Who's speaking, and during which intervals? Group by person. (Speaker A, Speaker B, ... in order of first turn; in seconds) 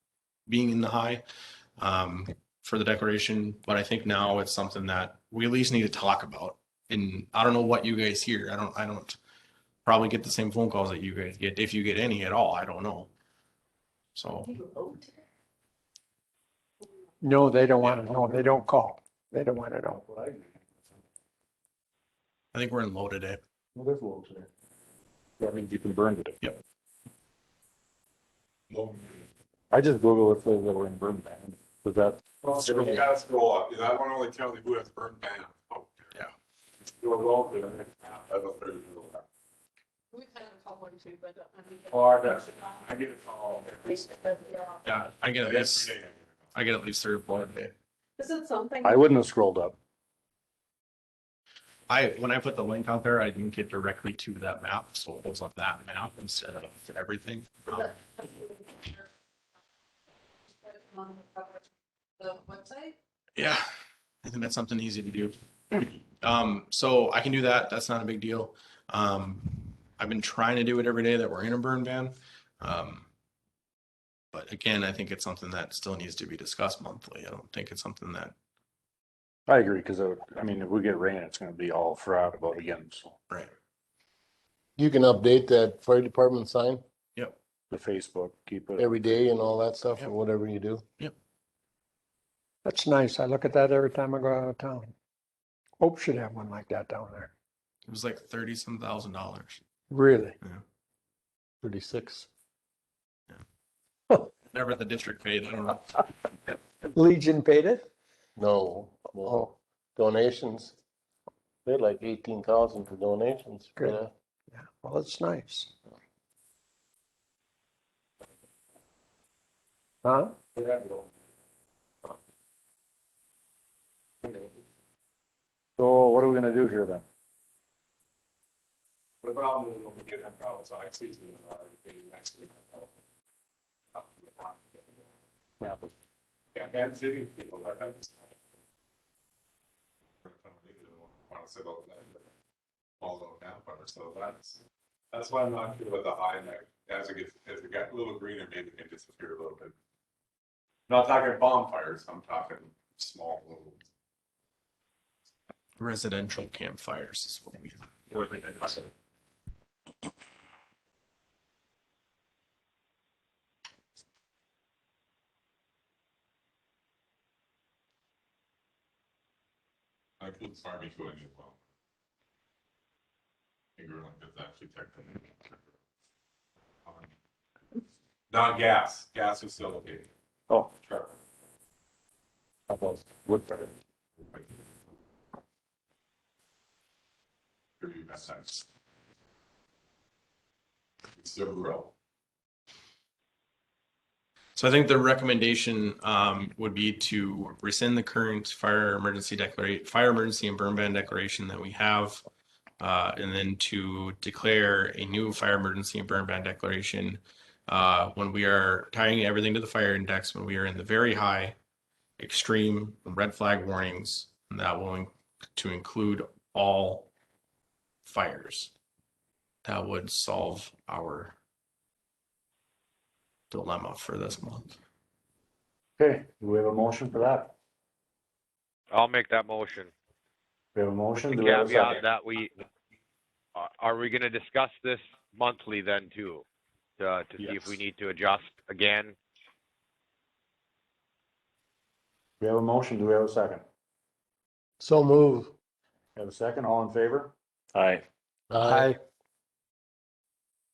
Speaker A: 0.5-1.2, 1.8-9.2, 9.8-13.1, 14.2-14.5, 22.5-23.4, 44.8-45.9, 46.5-47.7, 51.9-58.0, 63.4-63.6, 64.2-73.1, 74.3-78.3, 97.8-99.6, 104.5-106.0, 155.8-158.7, 194.6-202.2, 202.8-211.6, 212.2-217.1, 218.0-218.7, 219.6-221.3, 223.5-224.8
Speaker B: 17.2-20.0, 92.6-94.9, 95.8-97.3, 99.9-100.3, 106.9-107.9, 114.5-115.7, 120.0-120.4, 248.6-249.0
Speaker C: 20.0-20.4, 23.7-24.5, 25.5-26.4, 29.7-32.0, 48.8-49.8, 79.5-83.2, 87.7-89.2, 125.8-127.0, 226.0-227.5, 230.7-232.0, 237.4-237.8, 242.4-243.6, 246.2-247.3
Speaker D: 28.7-29.2, 32.5-36.1, 38.1-39.2, 45.4-46.3, 129.2-132.5, 134.2-134.5, 136.5-138.1, 140.2-142.2, 143.0-144.6, 145.1-149.7, 150.9-153.8, 170.2-171.6, 173.8-175.6, 178.3-180.1, 180.8-181.1, 187.8-188.6, 191.2-191.9
Speaker E: 40.1-42.9, 43.9-44.7, 48.2-49.0, 57.7-59.0, 60.6-61.6, 62.2-62.9
Speaker F: 84.8-86.8, 88.8-90.8, 101.6-102.2, 108.3-110.8, 111.6-114.1, 244.8-245.5, 248.5-248.9
Speaker G: 228.9-229.9, 231.3-232.6, 233.6-236.4, 237.0-239.2